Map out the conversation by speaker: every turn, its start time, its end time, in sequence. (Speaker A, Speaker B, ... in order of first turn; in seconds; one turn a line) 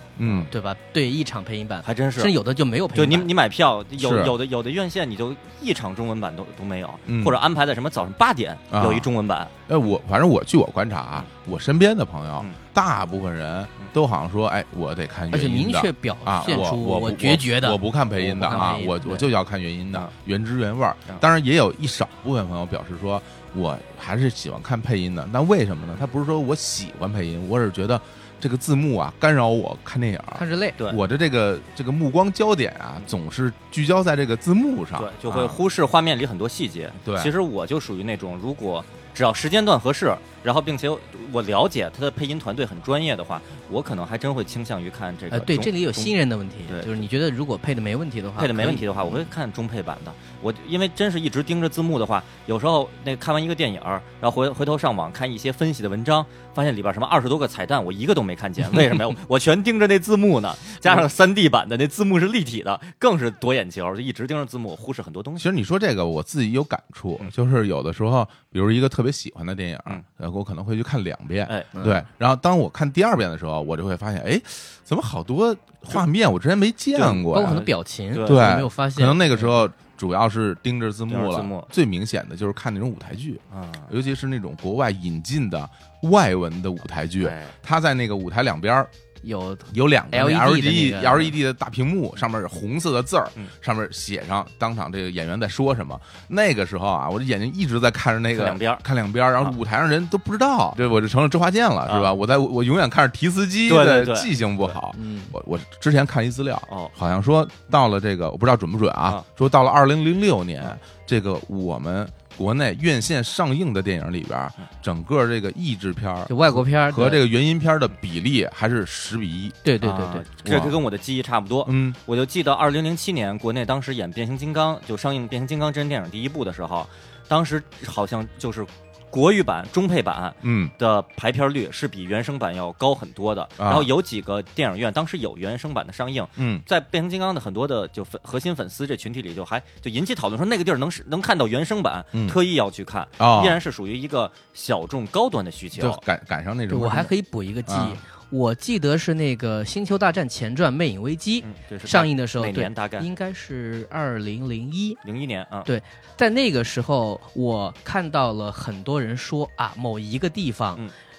Speaker A: 0.2-0.5
Speaker B: 0.5-3.3
Speaker C: 1.8-2.4
Speaker C: 2.9-9.5
Speaker A: 4.0-4.3
Speaker A: 7.1-7.4
Speaker A: 8.7-9.1
Speaker A: 9.7-35.6
Speaker B: 15.3-19.3
Speaker B: 30.4-30.8
Speaker C: 35.0-46.1
Speaker A: 37.0-37.3
Speaker B: 45.3-48.8
Speaker C: 46.7-47.0
Speaker C: 48.4-65.5
Speaker A: 65.4-77.7
Speaker B: 71.8-72.0
Speaker C: 77.0-78.6
Speaker B: 77.3-79.6
Speaker A: 78.2-88.9
Speaker C: 81.1-81.7
Speaker C: 83.5-83.9
Speaker C: 87.2-87.5
Speaker B: 89.2-91.3
Speaker A: 89.7-119.6
Speaker C: 98.3-98.8
Speaker C: 101.9-102.1
Speaker C: 103.7-104.8
Speaker B: 104.9-105.3
Speaker B: 116.3-117.2
Speaker B: 119.7-120.2
Speaker C: 119.8-146.0
Speaker A: 120.5-120.8
Speaker A: 121.7-122.0
Speaker A: 130.4-130.7
Speaker A: 133.6-133.9
Speaker A: 136.4-136.7
Speaker A: 143.2-143.6
Speaker A: 145.7-147.1
Speaker B: 146.7-155.0
Speaker A: 147.7-148.0
Speaker C: 151.4-153.1
Speaker C: 155.1-155.7
Speaker B: 155.7-160.8